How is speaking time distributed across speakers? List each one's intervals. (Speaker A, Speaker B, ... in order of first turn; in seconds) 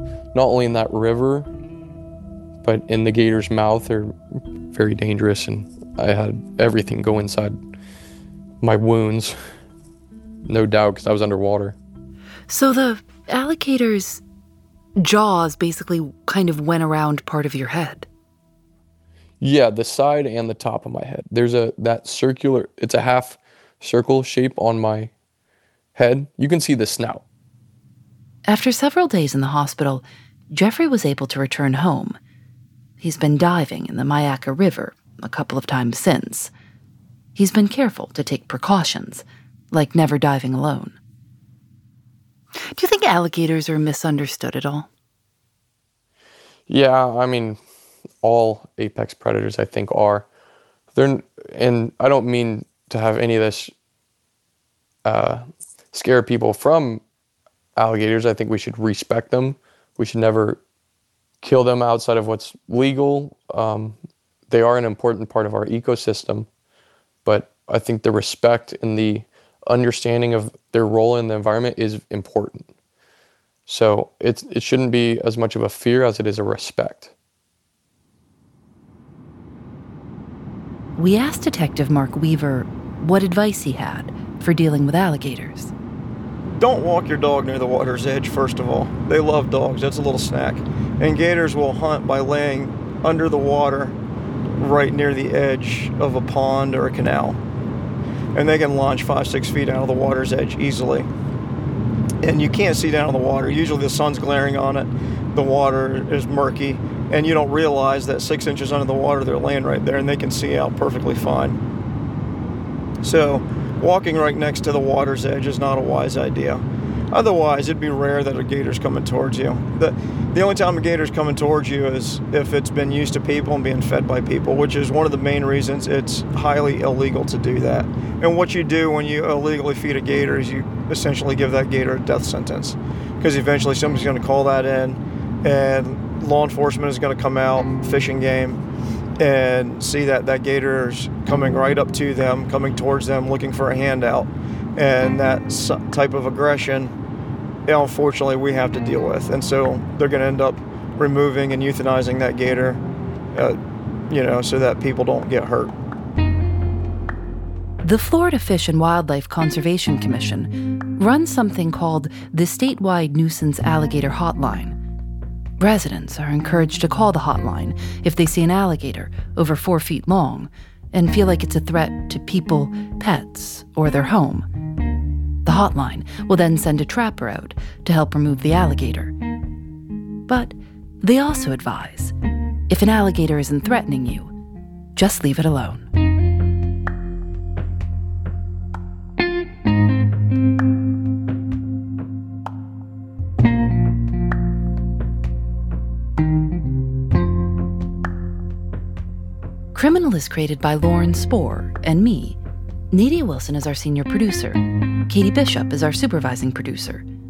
Speaker A: 0.3-1.5, 2.6-4.1, 4.7-7.6, 8.6-9.4, 10.5-11.8, 19.4-25.1, 25.9-27.2, 46.7-47.6, 48.2-50.3, 50.9-53.7, 55.0-57.0, 57.8-60.6, 61.4-64.0, 64.5-66.5, 67.2-72.7, 73.7-77.1
Speaker B: 12.5-14.2, 15.0-18.1, 28.5-32.2, 33.0-36.5, 37.4-41.0, 42.6-44.9, 81.0-85.7, 157.8-164.8, 165.6-174.5, 175.4-179.1, 180.3-182.1, 182.7-184.3, 185.0-185.9, 199.7-202.4, 202.9-207.1
Speaker C: 86.5-94.0, 94.5-97.4, 98.3-101.1, 102.2-111.6, 113.0-138.6, 139.2-146.9, 147.7-152.8, 153.3-155.7